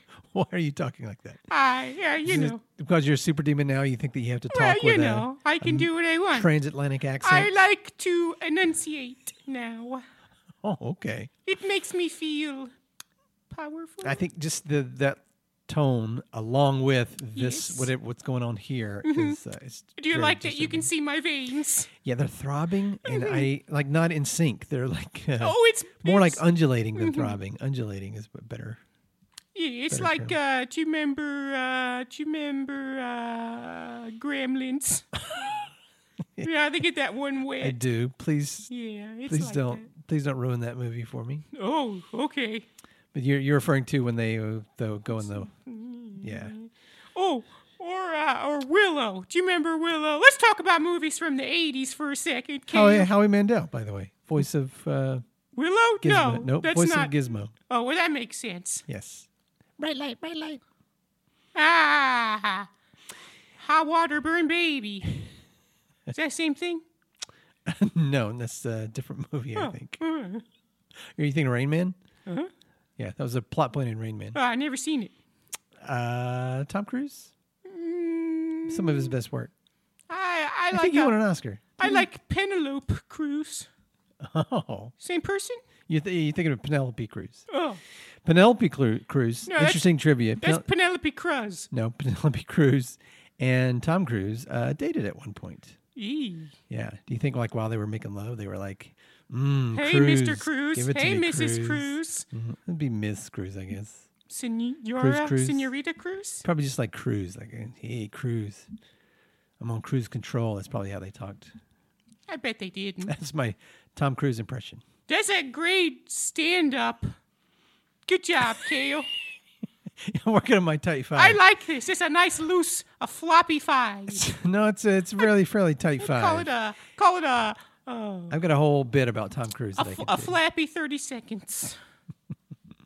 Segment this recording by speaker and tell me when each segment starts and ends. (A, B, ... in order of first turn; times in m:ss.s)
0:00.3-0:01.5 A
0:01.5-0:02.6 B
0:02.2-0:07.5 A
0:04.5-0:06.5 B
0:07.2-0:10.0 B
0:10.6-0:11.3 A
0:11.4-0:12.7 B
0:13.5-0:14.2 B
0:14.0-0:20.9 A
0:17.3-0:17.9 B
0:19.0-0:19.4 B
0:20.0-0:21.9 B
0:22.0-0:28.8 A
0:23.0-0:23.5 B
0:25.4-0:26.4 B
0:27.0-0:27.3 B
0:29.5-0:35.2 B
0:29.9-0:30.3 A
0:36.4-0:37.8 B
0:37.6-0:38.7 A
0:38.7-0:39.9 B
0:39.3-0:41.4 A
0:41.5-0:42.6 B
0:43.1-0:45.5 A
0:45.1-0:53.1 B
0:46.2-0:46.5 A
0:52.7-0:55.2 A
0:55.6-0:57.2 B
0:56.0-0:57.5 A
0:57.7-0:58.8 B
0:58.9-0:59.3 A
0:59.8-1:00.6 A
1:01.5-1:02.7 B
1:03.6-1:05.2 B
1:06.1-1:06.8 B
1:07.6-1:10.0 A
1:09.5-1:10.4 B
1:11.1-1:12.0 A
1:13.0-1:14.4 A
1:14.3-1:15.1 B
1:15.8-1:17.3 A
1:17.6-1:19.1 B
1:18.7-1:19.5 A
1:20.1-1:21.2 B
1:20.7-1:22.1 A
1:21.8-1:23.7 B
1:24.2-1:24.9 A
1:25.0-1:25.6 B
1:25.9-1:27.5 A
1:27.5-1:27.8 B
1:28.2-1:30.6 A
1:29.5-1:29.8 B
1:30.4-1:31.7 B
1:31.7-1:35.8 A
1:36.0-1:36.5 B
1:36.7-1:44.0 A
1:39.7-1:42.2 B
1:44.3-1:46.4 B
1:45.0-1:45.7 A
1:46.4-1:48.7 A
1:49.6-1:51.5 A
1:52.3-1:53.1 B
1:53.0-1:54.8 A
1:55.1-1:57.1 B
1:58.0-1:59.1 B
2:00.0-2:01.4 A
2:01.1-2:04.3 B
2:04.1-2:06.5 A
2:06.0-2:08.4 B
2:08.3-2:10.4 A
2:09.8-2:11.8 B